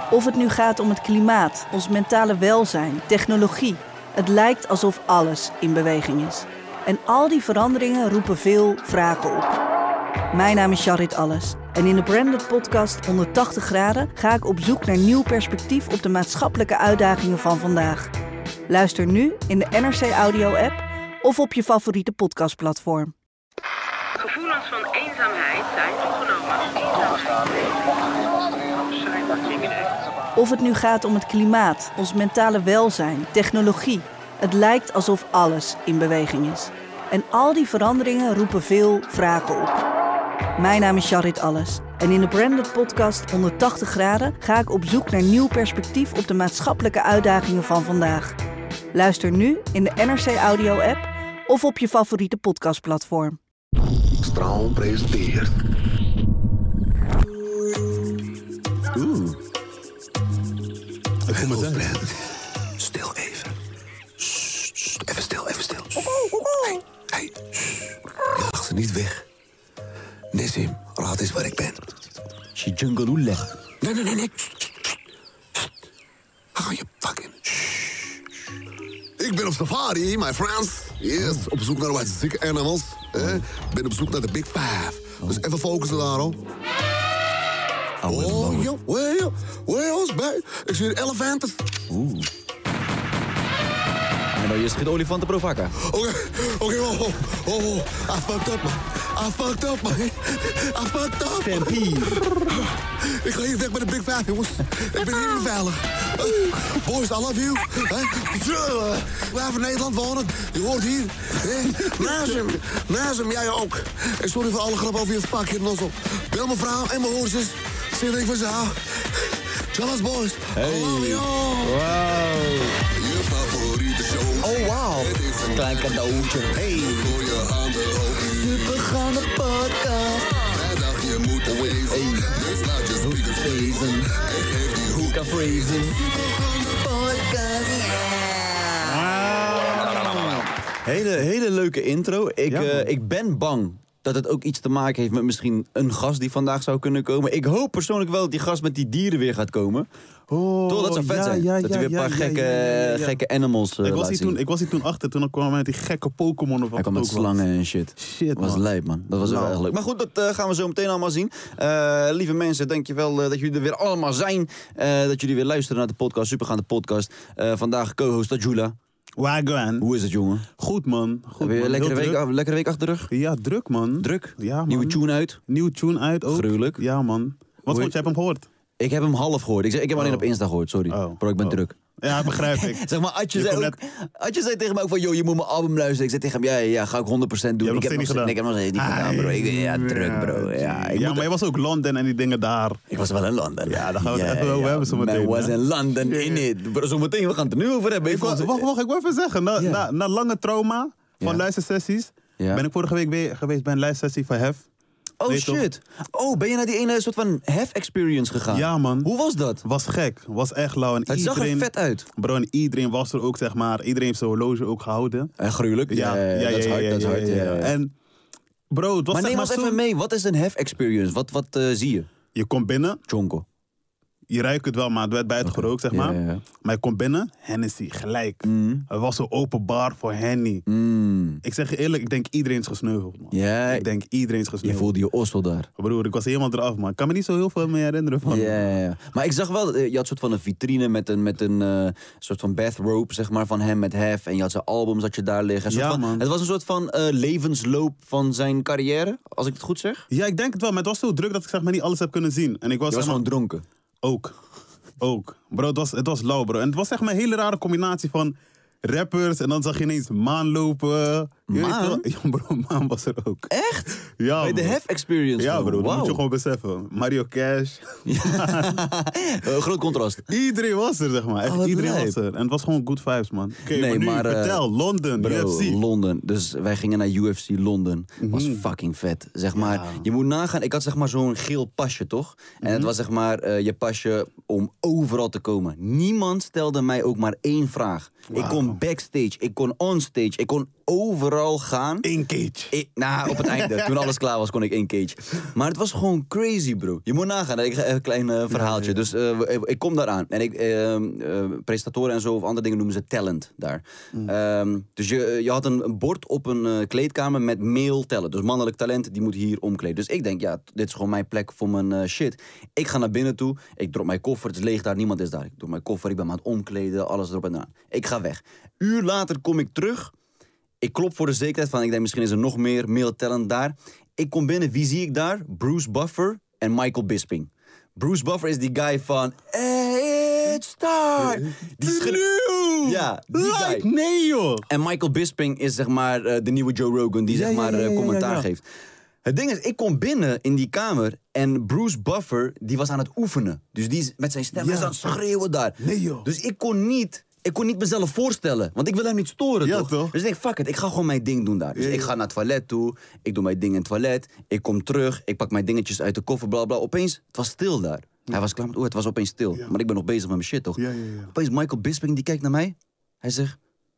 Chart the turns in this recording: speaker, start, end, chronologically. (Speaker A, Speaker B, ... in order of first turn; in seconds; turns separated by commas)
Speaker A: 0.1-9.6, Speaker A: 10.3-18.1, Speaker A: 18.7-23.1, Speaker B: 24.1-30.1, Speaker A: 30.4-39.8, Speaker A: 40.6-48.3, Speaker A: 48.9-53.4, Speaker C: 54.1-55.5, Speaker D: 58.9-59.4, Speaker E: 61.3-62.0, Speaker C: 61.3-62.1, Speaker D: 61.5-61.9, Speaker D: 62.8-63.3, Speaker C: 63.0-63.5, Speaker D: 64.2-66.1, Speaker C: 65.0-67.5, Speaker C: 68.3-69.2, Speaker C: 70.3-71.8, Speaker D: 72.5-73.5, Speaker C: 73.8-74.9, Speaker C: 76.5-77.9, Speaker C: 79.2-86.4, Speaker D: 81.2-81.5, Speaker D: 83.2-83.4, Speaker D: 88.0-88.7, Speaker C: 88.0-91.6, Speaker D: 91.9-92.3, Speaker D: 94.3-95.8, Speaker C: 95.8-122.2, Speaker D: 101.4-102.2, Speaker E: 102.2-102.6, Speaker D: 120.5-121.8, Speaker E: 121.8-122.5, Speaker C: 122.8-128.8, Speaker D: 124.4-126.8, Speaker D: 128.3-130.3, Speaker C: 130.4-137.8, Speaker D: 131.6-132.3, Speaker D: 133.0-134.1, Speaker D: 134.9-136.0, Speaker D: 137.3-139.0, Speaker E: 138.8-140.5, Speaker C: 139.7-140.3, Speaker D: 140.8-149.9, Speaker E: 142.5-142.9, Speaker E: 150.3-153.2, Speaker D: 150.7-154.4, Speaker E: 153.8-157.4, Speaker D: 156.8-168.8, Speaker E: 158.0-158.6, Speaker E: 159.2-159.6, Speaker E: 169.2-169.9, Speaker D: 169.8-170.5, Speaker E: 170.6-172.2, Speaker D: 171.4-173.1, Speaker E: 173.1-178.4, Speaker D: 174.0-175.4, Speaker D: 176.3-176.8, Speaker D: 177.7-177.9, Speaker D: 178.8-191.2, Speaker E: 179.9-180.3, Speaker E: 180.9-182.8, Speaker E: 183.3-183.8, Speaker E: 187.6-192.8, Speaker D: 192.9-198.7, Speaker E: 193.7-196.4, Speaker E: 198.0-204.7, Speaker D: 199.6-199.8, Speaker D: 202.4-202.6, Speaker D: 205.2-209.6, Speaker E: 205.3-205.7, Speaker E: 208.5-209.1, Speaker E: 209.6-215.3, Speaker D: 211.1-212.1, Speaker D: 215.4-217.7, Speaker E: 215.9-217.9, Speaker E: 218.7-219.8, Speaker D: 219.1-222.1, Speaker E: 222.3-223.0, Speaker D: 223.1-223.4, Speaker E: 224.3-230.6, Speaker D: 225.4-226.4, Speaker D: 228.4-228.8, Speaker D: 230.7-231.4, Speaker E: 231.4-234.9, Speaker D: 233.3-233.9, Speaker D: 234.6-235.7, Speaker E: 235.8-238.8, Speaker D: 238.2-250.1, Speaker E: 245.7-246.2, Speaker E: 250.1-253.2, Speaker D: 252.9-253.6, Speaker E: 254.0-254.3, Speaker E: 255.0-263.5, Speaker D: 261.5-262.0, Speaker D: 263.5-266.2, Speaker E: 264.2-264.8, Speaker E: 265.4-268.8, Speaker D: 268.1-270.2, Speaker E: 270.2-275.8, Speaker D: 271.4-272.1, Speaker D: 273.7-274.6, Speaker D: 275.2-292.1, Speaker E: 278.2-278.7, Speaker E: 279.5-280.0, Speaker E: 282.6-282.9, Speaker E: 288.3-288.8, Speaker E: 292.0-292.7, Speaker D: 292.7-320.1, Speaker E: 293.2-294.1, Speaker E: 298.5-299.0, Speaker D: 320.8-332.2, Speaker E: 331.2-334.6, Speaker D: 332.8-333.9, Speaker D: 334.7-338.6, Speaker E: 337.3-338.4, Speaker D: 339.2-360.8, Speaker E: 344.5-345.0, Speaker E: 345.8-346.3, Speaker E: 349.6-350.1, Speaker E: 351.7-352.1, Speaker E: 360.8-361.3, Speaker D: 361.3-363.6